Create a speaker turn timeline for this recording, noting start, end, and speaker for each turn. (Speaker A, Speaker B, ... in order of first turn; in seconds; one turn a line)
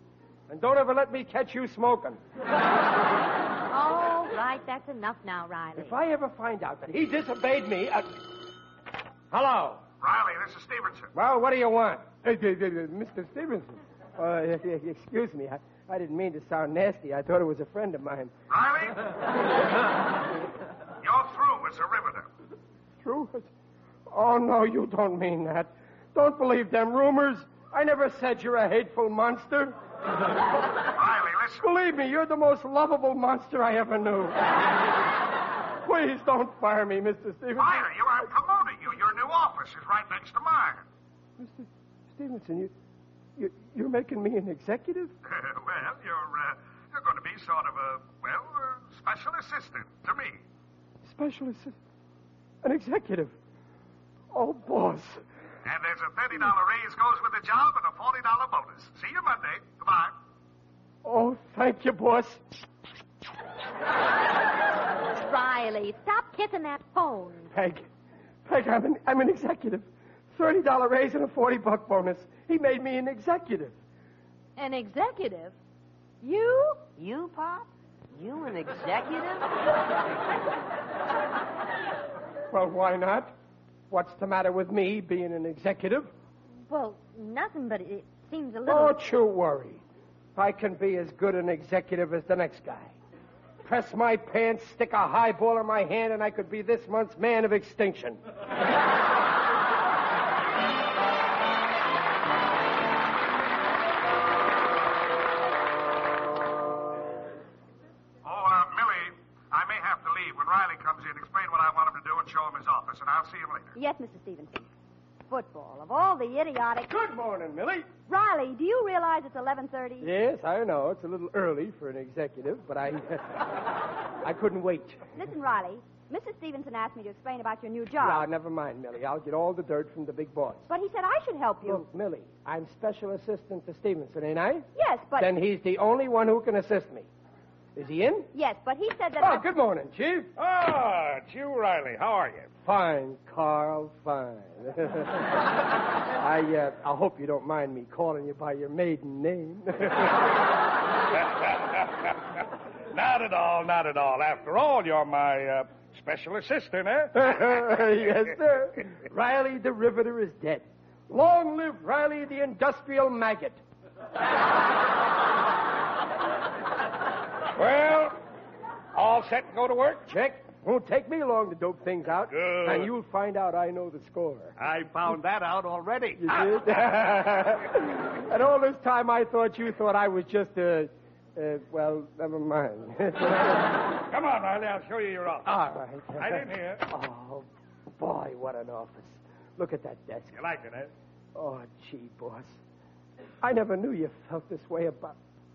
Speaker A: 0.5-2.2
Speaker B: 3.7-6.0
Speaker A: 5.8-8.2
Speaker A: 9.3-9.8
Speaker C: 9.9-11.1
Speaker A: 11.1-18.3
Speaker C: 18.5-19.0
Speaker C: 21.0-22.3
Speaker A: 23.0-23.5
Speaker A: 24.1-29.8
Speaker C: 30.9-31.6
Speaker A: 31.6-34.5
Speaker A: 35.8-37.9
Speaker C: 37.6-40.8
Speaker A: 41.4-42.7
Speaker A: 43.4-45.1
Speaker C: 45.3-50.4
Speaker A: 51.0-51.8
Speaker A: 52.6-53.3
Speaker A: 54.3-55.2
Speaker C: 55.6-60.1
Speaker A: 61.0-62.4
Speaker B: 65.2-67.5
Speaker A: 67.5-67.9
Speaker A: 68.5-73.8
Speaker B: 74.6-75.5
Speaker B: 76.2-76.8
Speaker D: 77.0-79.5
Speaker A: 82.5-83.3
Speaker A: 83.9-86.1
Speaker B: 86.7-89.0
Speaker A: 88.7-89.8
Speaker A: 90.3-92.9
Speaker A: 93.6-98.2
Speaker C: 108.2-113.7
Speaker E: 113.7-114.7
Speaker E: 115.3-116.9
Speaker A: 116.9-117.9
Speaker E: 118.1-120.1
Speaker A: 120.0-123.6
Speaker A: 124.2-125.2
Speaker E: 125.1-128.2
Speaker A: 128.0-130.7
Speaker E: 130.7-131.9
Speaker A: 131.6-137.1
Speaker E: 134.7-135.3
Speaker A: 137.8-138.3
Speaker E: 138.3-139.4
Speaker A: 139.2-140.3
Speaker C: 140.4-142.5
Speaker A: 142.7-145.3
Speaker A: 146.2-150.3
Speaker C: 151.2-152.1
Speaker C: 152.9-157.3
Speaker A: 157.1-163.6
Speaker C: 167.6-168.2
Speaker C: 168.9-170.1
Speaker A: 170.1-174.5
Speaker C: 172.3-172.9
Speaker C: 174.6-177.0
Speaker A: 176.2-183.8
Speaker C: 184.1-185.5
Speaker A: 185.4-187.5
Speaker C: 186.2-186.8
Speaker A: 188.0-190.4
Speaker C: 190.3-190.9
Speaker A: 191.3-192.6
Speaker A: 193.4-195.2